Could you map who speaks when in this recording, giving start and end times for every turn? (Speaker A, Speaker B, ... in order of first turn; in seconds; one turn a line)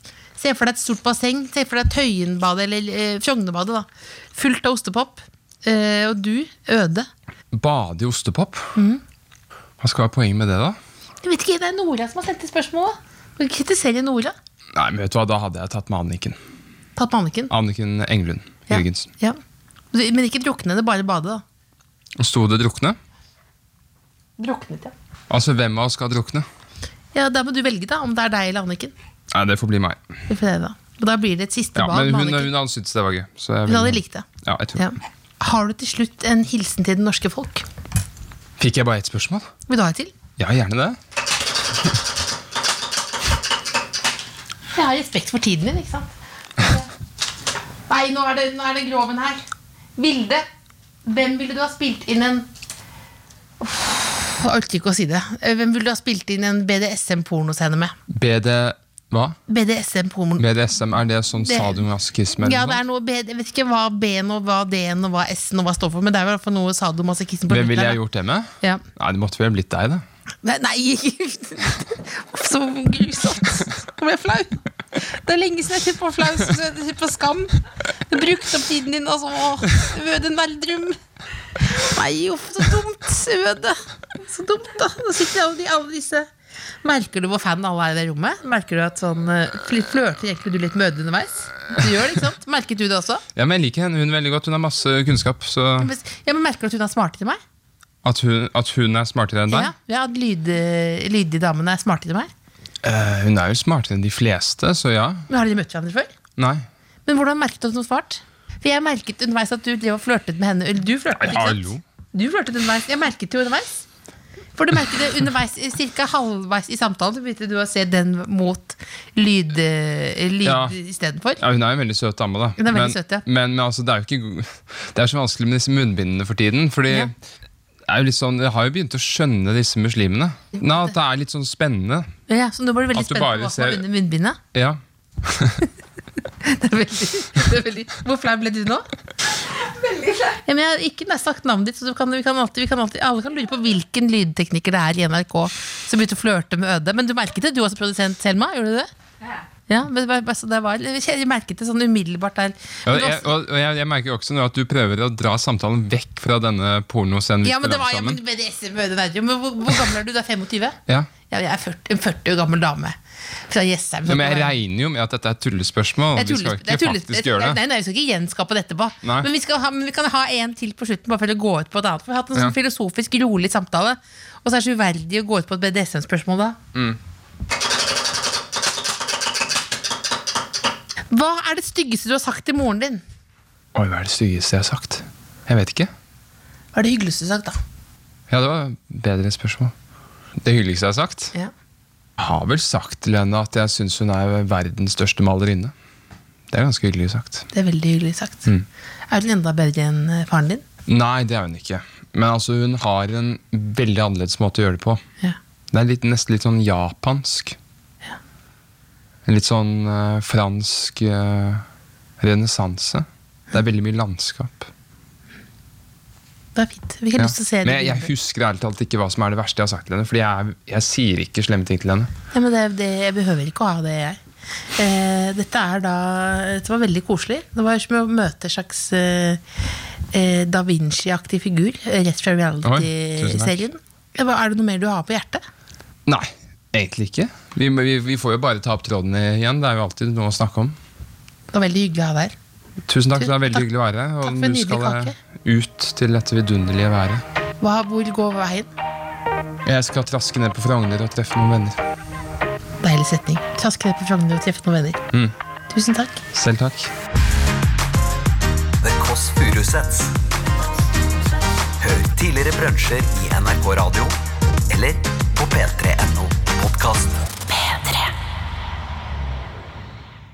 Speaker A: 0.4-7.1
Speaker B: 7.5-8.8
Speaker A: 8.8-9.0
Speaker B: 9.8-10.8
Speaker A: 11.2-14.3
Speaker B: 14.7-16.4
Speaker A: 17.0-17.5
Speaker B: 17.5-19.1
Speaker A: 18.7-19.4
Speaker A: 19.9-21.4
Speaker B: 22.2-23.0
Speaker A: 24.4-24.9
Speaker B: 25.3-26.4
Speaker A: 27.1-28.9
Speaker B: 29.3-30.1
Speaker A: 30.3-32.5
Speaker B: 31.8-34.9
Speaker A: 33.7-37.6
Speaker B: 38.6-39.5
Speaker A: 39.7-40.1
Speaker B: 40.4-41.0
Speaker A: 44.7-46.9
Speaker A: 47.9-49.4
Speaker A: 50.0-50.5
Speaker A: 51.0-52.5
Speaker A: 53.6-57.9
Speaker B: 58.1-59.4
Speaker A: 59.5-60.5
Speaker B: 60.4-62.8
Speaker A: 61.4-61.8
Speaker A: 62.4-68.0
Speaker B: 67.5-70.0
Speaker A: 70.4-81.0
Speaker A: 81.6-86.3
Speaker A: 86.8-93.2
Speaker B: 93.3-95.9
Speaker A: 95.8-97.4
Speaker B: 98.0-99.7
Speaker A: 99.5-102.3
Speaker B: 102.8-105.3
Speaker A: 105.3-106.1
Speaker B: 106.4-106.7
Speaker A: 107.1-113.8
Speaker B: 111.1-111.8
Speaker A: 114.6-121.4
Speaker B: 120.4-120.8
Speaker B: 121.4-127.1
Speaker A: 122.6-123.2
Speaker B: 127.9-132.1
Speaker A: 132.3-134.4
Speaker B: 132.9-133.8
Speaker B: 134.5-135.7
Speaker A: 136.4-138.9
Speaker A: 139.9-148.9
Speaker A: 149.7-153.3
Speaker B: 152.9-158.2
Speaker A: 157.4-160.8
Speaker A: 161.3-163.0
Speaker A: 163.5-164.5
Speaker B: 164.1-167.6
Speaker A: 166.2-176.6
Speaker B: 169.0-169.3
Speaker B: 176.7-177.0
Speaker A: 181.1-183.0
Speaker B: 183.8-185.9
Speaker A: 186.7-187.6
Speaker B: 188.3-189.7
Speaker B: 190.4-191.3
Speaker B: 192.2-195.7
Speaker B: 196.5-197.5
Speaker A: 197.5-198.5
Speaker A: 199.1-200.6
Speaker B: 200.9-205.0
Speaker B: 205.7-207.6
Speaker B: 209.3-211.7
Speaker B: 212.2-214.7
Speaker A: 216.6-218.1
Speaker B: 217.2-222.1
Speaker A: 222.3-224.2
Speaker A: 224.8-229.4
Speaker A: 230.1-235.4
Speaker B: 232.6-233.6
Speaker B: 236.1-240.8
Speaker A: 241.5-242.3
Speaker B: 242.9-247.2
Speaker A: 243.2-243.7
Speaker A: 244.2-245.2
Speaker A: 247.6-248.7
Speaker B: 249.7-251.8
Speaker A: 252.8-255.0
Speaker A: 255.7-256.2
Speaker B: 256.3-256.9
Speaker C: 258.8-260.2
Speaker C: 261.8-264.2
Speaker C: 264.7-267.2
Speaker A: 267.5-268.1